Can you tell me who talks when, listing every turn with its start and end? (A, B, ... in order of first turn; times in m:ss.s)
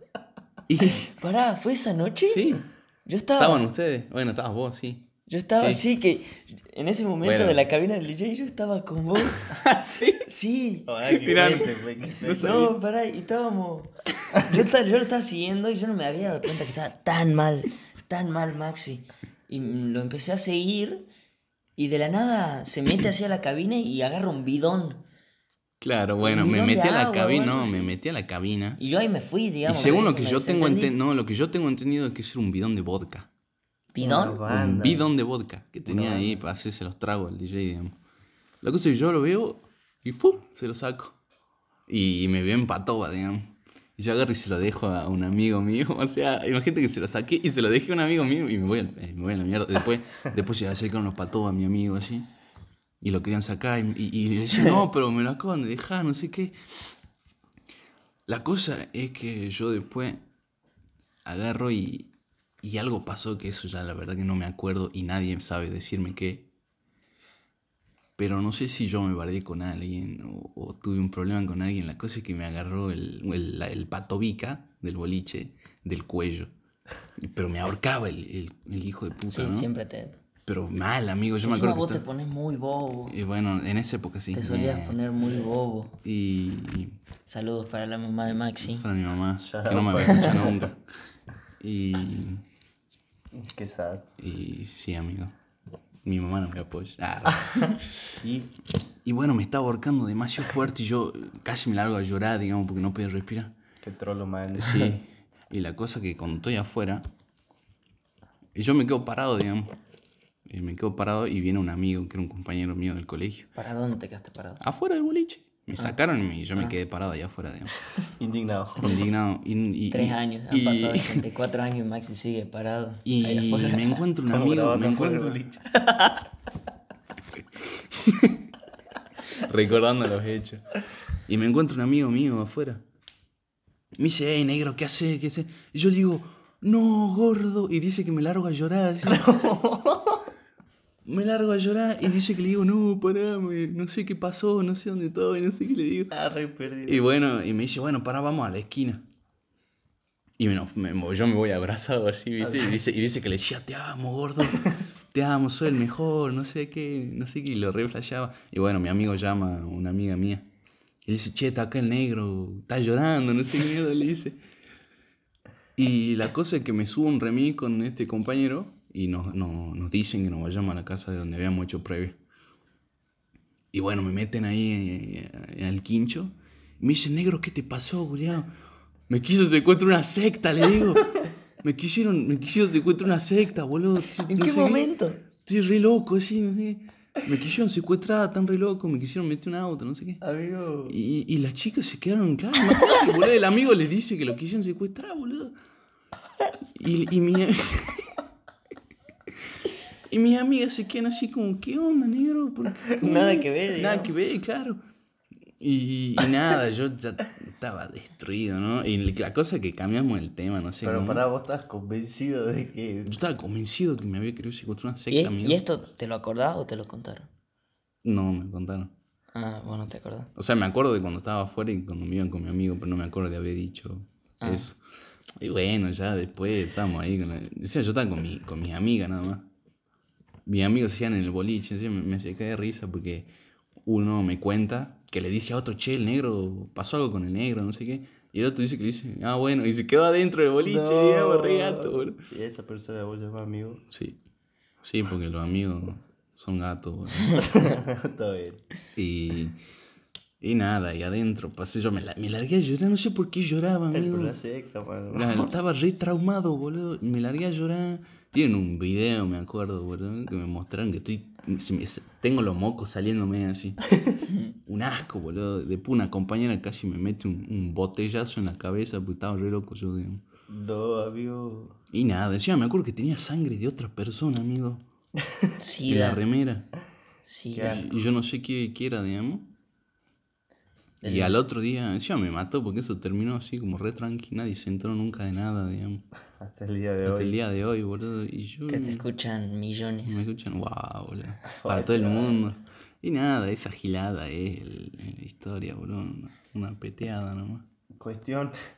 0:00.7-0:01.1 A
0:00.9-0:03.6 B
0:02.2-0:02.6 A
0:03.4-0:05.8 A
0:05.3-0:09.5 B
0:07.2-0:07.6 A
0:09.4-0:10.2 A
0:10.2-0:11.6 B
0:10.9-0:12.7 C
0:11.2-0:12.7 A
0:12.4-0:21.0 B
0:21.8-0:25.0 B
0:25.8-0:28.8 A
0:26.2-0:27.9 B
0:28.8-0:30.9 B
0:29.6-0:33.3 A
0:33.9-0:34.4 B
0:34.0-0:35.1 C
0:34.4-0:37.9 A
0:35.8-0:36.4 C
0:38.6-0:41.2 A
0:41.9-0:52.2 A
0:53.0-0:56.6 A
0:58.3-1:00.2 A
1:01.2-1:02.1 A
1:02.6-1:06.5 A
1:08.2-1:16.5 A
1:17.2-1:19.7 A
1:19.3-1:20.2 B
1:20.4-1:22.0 A
1:21.4-1:23.2 B
1:23.1-1:25.0 A
1:24.3-1:26.0 B
1:26.0-1:27.0 A
1:27.3-1:28.9 B
1:28.6-1:30.8 A
1:29.4-1:30.7 C
1:31.6-1:32.4 A
1:33.3-1:34.1 C
1:34.2-1:35.3 A
1:36.0-1:38.0 A
1:38.2-1:38.5 C
1:39.0-1:43.5 A
1:43.8-1:44.9 C
1:44.6-1:47.0 A
1:48.5-1:49.8 A
1:50.5-1:53.5 A
1:53.6-1:54.6 B
1:54.6-1:57.8 A
1:58.2-1:59.0 C
1:58.8-2:01.2 A
1:59.9-2:04.0 B
2:03.0-2:05.4 A
2:04.3-2:05.9 C
2:07.8-2:08.4 A
2:09.3-2:12.8 A
2:14.0-2:19.4 A
2:19.0-2:20.2 C
2:21.0-2:26.1 A
2:26.1-2:27.0 C
2:26.8-2:29.0 A
2:30.4-2:40.4 A
2:32.4-2:32.7 C
2:41.0-2:44.4 A
2:45.8-2:52.2 A
2:53.7-2:58.5 A
2:59.1-3:04.9 A
3:04.2-3:05.2 B
3:05.4-3:10.2 A
3:10.2-3:11.0 C
3:10.9-3:15.5 A
3:16.7-3:18.2 A
3:20.1-3:24.8 A
3:23.0-3:24.1 B
3:25.6-3:31.2 A
3:30.8-3:33.1 C
3:33.1-3:35.6 A
3:35.1-3:37.3 B
3:38.0-3:38.9 A
3:39.3-3:40.3 B
3:40.4-3:44.8 A
3:44.4-3:44.7 B
3:45.4-3:49.4 A
3:50.4-3:53.3 A
3:53.8-4:02.2 A
4:00.6-4:03.8 C
4:03.9-4:04.2 A
4:04.8-4:07.5 A
4:07.3-4:08.6 C
4:09.0-4:09.6 A
4:10.4-4:14.4 A
4:13.9-4:15.5 C
4:15.1-4:23.9 A
4:24.6-4:30.2 A
4:30.5-4:31.8 C
4:31.9-4:34.8 A
4:35.6-4:36.2 B
4:35.9-4:36.7 A
4:37.2-4:37.8 B
4:37.5-4:37.9 C
4:37.6-4:39.5 A
4:41.0-4:41.3 B
4:41.0-4:46.0 A
4:46.4-4:47.4 C
4:47.0-4:49.0 A
4:48.7-4:50.2 B
4:50.0-4:57.6 A
4:51.6-4:52.4 C
4:58.0-4:58.6 C